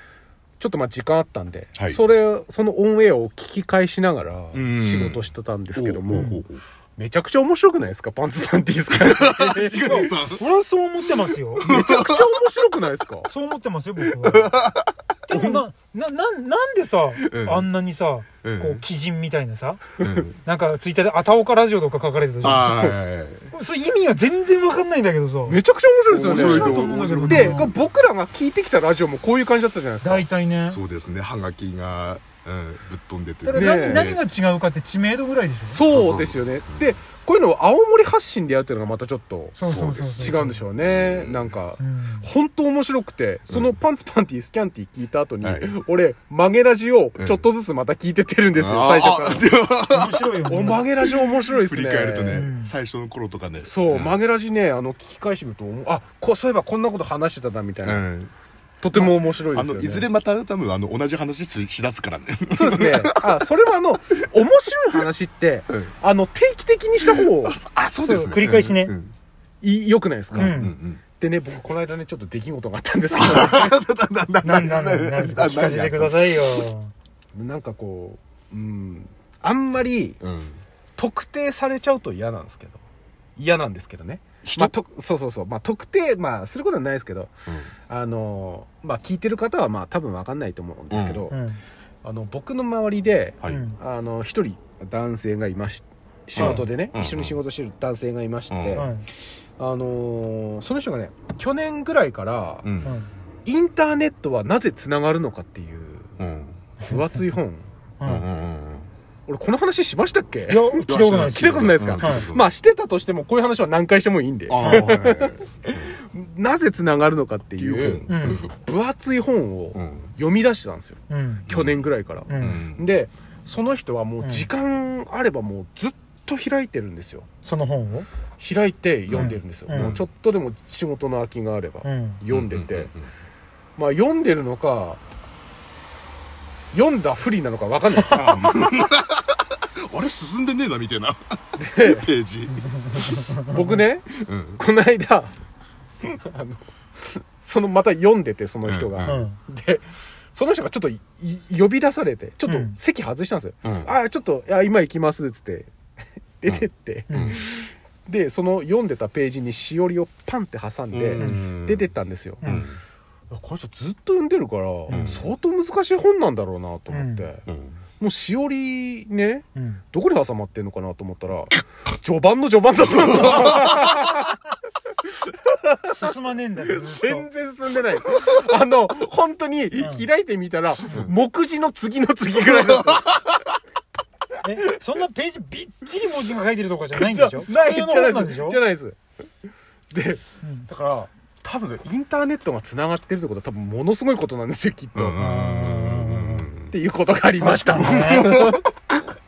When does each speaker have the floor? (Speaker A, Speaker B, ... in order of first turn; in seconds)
Speaker A: 0.6-6.4, 7.0-10.1, 11.6-13.3, 15.3-15.6, 25.5-30.3, 33.5-34.1, 35.7-49.5, 50.5-52.5, 53.6-58.1, 58.8-60.1, 62.5-67.6, 69.6-70.6, 71.2-73.8, 77.3-80.2, 81.0-82.8, 83.4-87.3, 87.9-91.4, 92.0-98.9, 99.6-102.7, 103.5-106.1, 106.8-107.7, 109.3-127.3, 128.4-132.9, 133.8-135.0, 136.7-138.7, 141.6-142.1, 143.5-145.3, 146.0-146.6, 147.2-155.7, 156.4-162.4, 163.3-167.4, 168.0-174.4, 175.2-176.1, 176.6-183.1, 186.9-189.0, 189.9-195.2, 196.7-198.7
Speaker B: 4.5-6.6, 9.0-10.4, 11.6-12.3, 14.2-15.0, 17.2-17.7, 18.4-18.8, 20.0-20.4, 22.4-23.5, 26.1-27.8, 30.7-34.2, 35.9-36.9, 39.6-41.5, 45.4-45.7, 48.6-54.2, 57.8-58.3, 58.9-63.3, 67.0-69.1, 70.3-71.0, 73.2-76.7, 80.2-80.6, 84.4-84.8, 90.9-91.2, 96.4-97.4, 98.5-98.9, 102.6-102.9, 106.2-106.6, 108.0-108.9, 110.8-112.5, 114.5-115.9, 117.6-118.5, 119.8-120.1, 121.5-121.8, 122.4-122.9, 129.1-130.0, 132.3-133.1, 138.1-141.2, 141.8-143.2, 144.2-144.6, 148.7-149.2, 153.6-153.9, 156.5-157.4, 160.9-161.9, 162.4-162.8, 164.9-165.2, 167.5-167.8, 182.5-183.4, 194.9-196.7, 198.2-198.5
Speaker C: 6.1-6.4, 9.7-11.7, 13.2-14.6, 15.3-23.0, 23.5-25.6, 26.2-27.7, 30.0-30.8, 33.4-35.8, 39.6-40.6, 41.8-42.3, 49.9-50.8, 52.3-52.7, 68.0-68.9, 70.3-70.8, 74.4-76.9, 91.3-91.6, 93.5-93.8, 96.4-96.6, 98.7-99.1, 102.8-103.1, 108.0-108.3, 110.5-112.3, 114.6-114.9, 118.1-118.4, 121.1-121.5, 122.3-122.7, 124.2-124.5, 127.4-128.1, 129.2-129.9, 131.8-132.2, 142.6-143.6, 149.0-149.4, 152.5-152.8, 157.1-157.4, 161.2-161.4, 162.4-162.7, 164.9-165.2, 166.9-167.3, 169.6-169.8, 175.9-177.3, 179.8-180.1, 184.4-188.6, 190.4-190.7, 195.2-196.5, 197.4-198.6